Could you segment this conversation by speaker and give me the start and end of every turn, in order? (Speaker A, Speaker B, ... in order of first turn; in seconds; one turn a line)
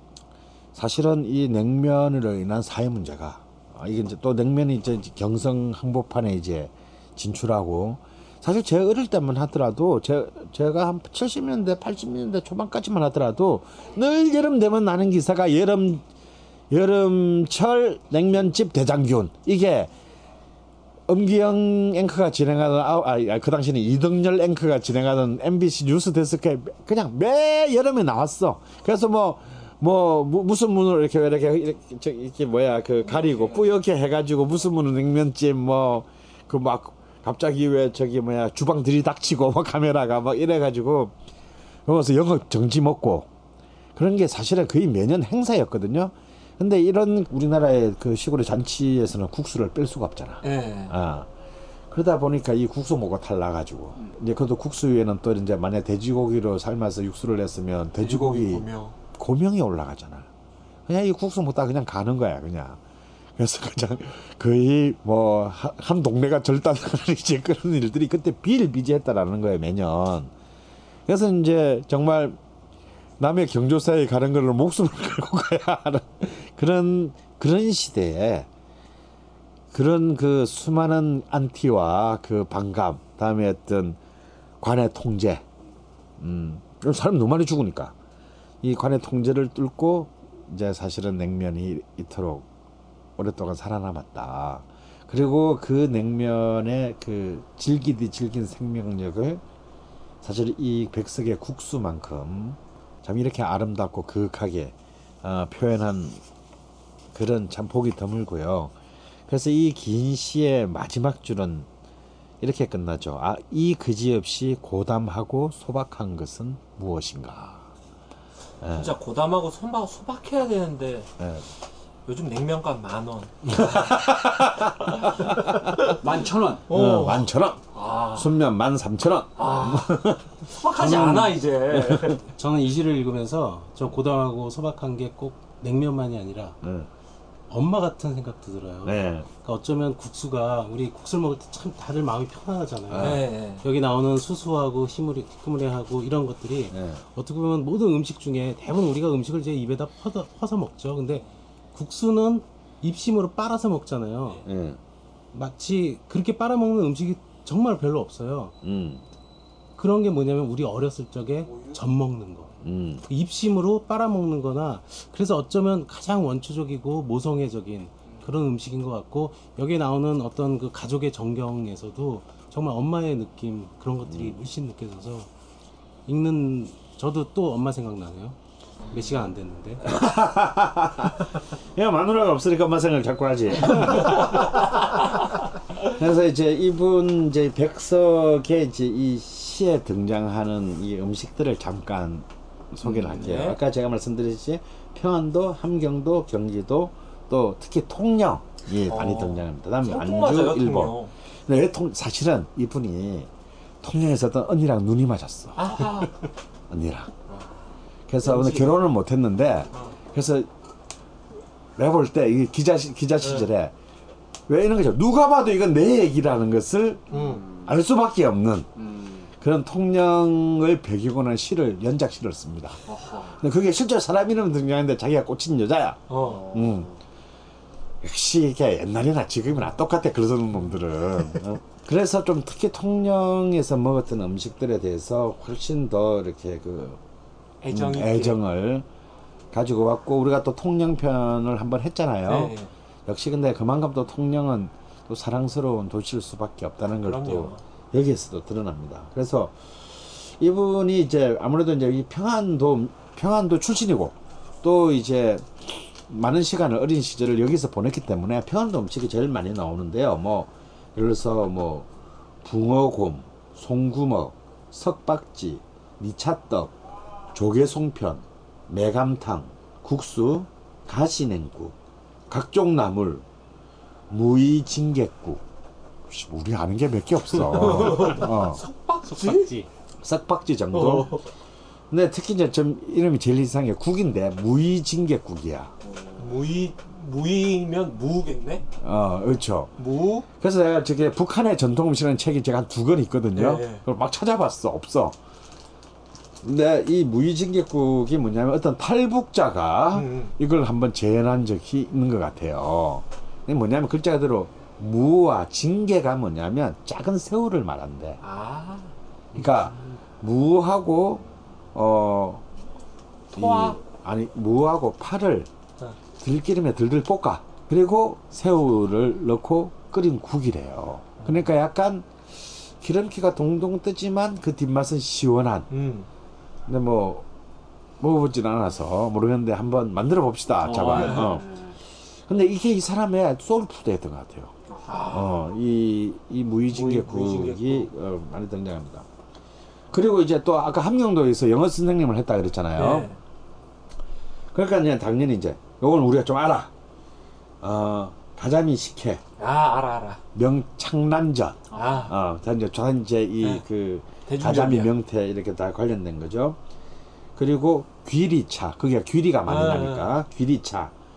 Speaker A: 0.7-16.1
Speaker A: 16.7-19.9
Speaker A: 21.1-41.1
Speaker A: 41.9-43.3
Speaker A: 44.0-51.3
Speaker B: 50.4-51.0
Speaker A: 51.9-60.3
Speaker B: 58.0-59.0
Speaker A: 60.9-62.8
Speaker A: 63.4-70.3
Speaker A: 71.1-72.4
Speaker A: 73.2-78.5
Speaker A: 79.7-84.0
Speaker A: 84.6-85.5
Speaker A: 86.2-88.0
Speaker A: 88.6-92.5
Speaker A: 93.2-99.4
Speaker A: 100.2-106.2
Speaker A: 107.1-108.7
Speaker A: 109.3-111.7
Speaker A: 112.4-117.7
Speaker A: 118.6-119.0
Speaker B: 118.7-121.1
Speaker A: 121.2-121.4
Speaker B: 122.1-124.0
Speaker A: 123.5-125.6
Speaker B: 124.8-126.0
Speaker C: 126.0-126.6
Speaker B: 126.7-128.3
Speaker A: 126.7-132.2
Speaker B: 129.4-132.2
Speaker D: 132.4-136.6
Speaker A: 136.6-136.9
Speaker D: 137.5-154.4
Speaker A: 138.8-139.3
Speaker A: 142.9-143.2
Speaker B: 143.0-143.6
Speaker A: 146.7-147.0
Speaker A: 154.5-154.8
Speaker D: 155.3-158.6
Speaker A: 158.6-159.1
Speaker D: 159.8-162.5
Speaker A: 162.6-163.0
Speaker D: 163.1-175.3
Speaker A: 174.1-174.4
Speaker D: 176.1-178.4
Speaker D: 178.9-179.9
Speaker A: 179.9-184.7
Speaker A: 185.8-203.3
Speaker B: 192.9-193.6
Speaker B: 198.9-201.1
Speaker A: 203.8-205.9
Speaker B: 205.6-206.1
Speaker A: 206.7-207.1
Speaker A: 208.1-210.6
Speaker B: 208.2-208.7
Speaker A: 211.8-213.7
Speaker A: 214.5-217.1
Speaker B: 217.1-217.4
Speaker C: 217.1-217.6
Speaker A: 217.7-218.7
Speaker C: 218.8-219.2
Speaker A: 219.4-226.9
Speaker C: 222.9-223.2
Speaker B: 226.1-226.4
Speaker C: 226.3-226.9
Speaker A: 228.0-237.0
Speaker B: 237.6-238.4
Speaker A: 237.7-238.9
Speaker A: 239.5-242.6
Speaker B: 242.2-242.7
Speaker A: 243.1-261.9
Speaker B: 247.0-247.6
Speaker A: 262.4-266.8
Speaker A: 267.3-271.8
Speaker A: 272.3-273.2
Speaker A: 274.1-275.4
Speaker A: 276.1-278.6
Speaker B: 277.5-279.6
Speaker D: 279.1-279.7
Speaker A: 280.0-281.2
Speaker B: 280.7-281.2
Speaker A: 281.9-285.7
Speaker B: 286.2-288.6
Speaker A: 288.8-289.7
Speaker B: 289.8-290.3
Speaker A: 290.4-295.2
Speaker B: 293.3-293.8
Speaker A: 296.4-308.2
Speaker B: 299.9-300.3
Speaker B: 308.2-309.7
Speaker A: 309.4-312.4
Speaker A: 313.3-315.5
Speaker B: 313.3-313.8
Speaker A: 316.2-325.7
Speaker B: 321.2-321.5
Speaker B: 325.7-326.1
Speaker A: 326.7-327.3
Speaker A: 328.0-331.5
Speaker B: 330.7-331.2
Speaker C: 330.8-331.8
Speaker A: 332.3-334.5
Speaker B: 334.9-335.3
Speaker A: 335.1-339.1
Speaker B: 336.7-337.9
Speaker A: 339.9-343.1
Speaker B: 342.8-343.2
Speaker A: 344.5-346.7
Speaker A: 347.6-349.2
Speaker B: 349.4-350.2
Speaker A: 350.4-356.6
Speaker B: 351.7-352.1
Speaker B: 354.3-354.9
Speaker A: 357.4-360.9
Speaker B: 359.5-360.2